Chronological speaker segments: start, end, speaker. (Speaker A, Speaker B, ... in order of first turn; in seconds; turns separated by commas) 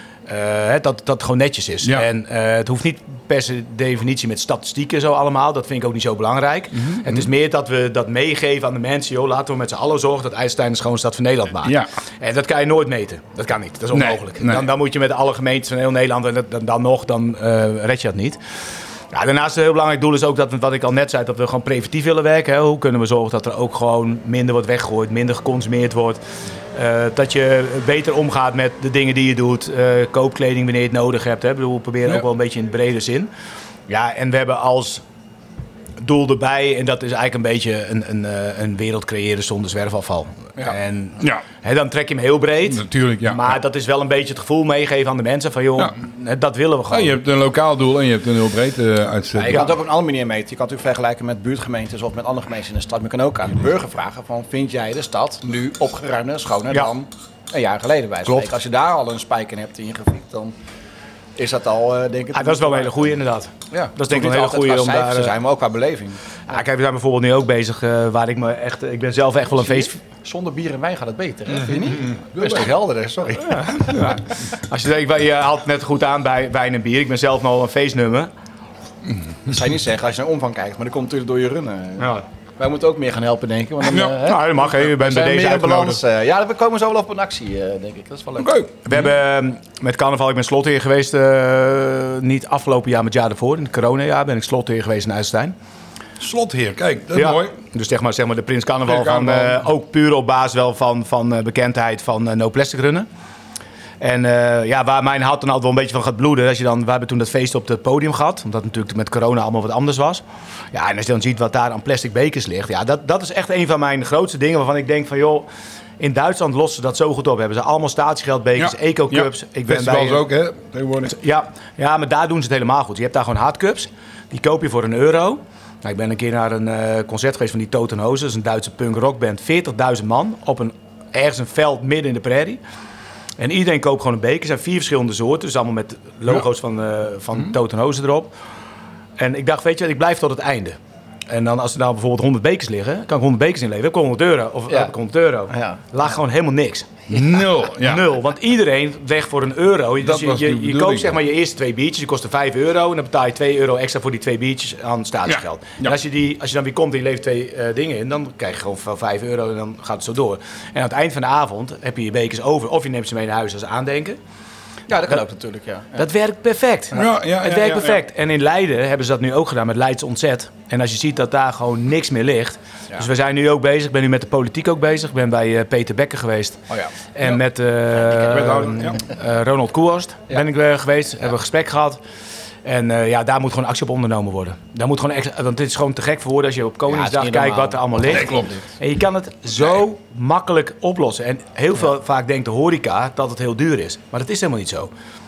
Speaker A: 0.3-18.4, Speaker B: 6.7-7.3, Speaker B: 13.9-14.7, Speaker A: 19.1-26.2, Speaker A: 26.7-33.3, Speaker A: 33.9-35.0, Speaker A: 36.0-47.2, Speaker B: 42.7-43.5, Speaker B: 46.9-49.7, Speaker C: 49.4-60.5, Speaker C: 61.4-63.1, Speaker A: 62.3-65.3, Speaker C: 63.7-66.3, Speaker A: 66.5-70.0, Speaker C: 69.6-74.2, Speaker B: 71.8-72.7, Speaker A: 73.4-78.3, Speaker C: 79.4-88.5, Speaker B: 83.9-84.2, Speaker A: 83.9-86.0, Speaker B: 88.4-89.1, Speaker A: 88.8-95.5, Speaker B: 96.2-97.5, Speaker A: 97.1-103.1, Speaker B: 98.8-99.7, Speaker A: 104.0-115.5, Speaker A: 116.0-120.2, Speaker B: 118.6-121.2, Speaker A: 121.0-132.6, Speaker A: 133.4-138.3, Speaker A: 139.2-140.8, Speaker A: 141.3-164.2, Speaker C: 145.5-145.8, Speaker B: 147.1-148.1, Speaker B: 150.0-151.2, Speaker B: 155.2-156.0, Speaker C: 164.9-166.0, Speaker A: 166.0-176.6, Speaker B: 166.9-168.0, Speaker A: 177.1-182.0, Speaker B: 178.0-179.0, Speaker A: 182.6-194.9, Speaker C: 186.9-188.6, Speaker B: 188.1-188.6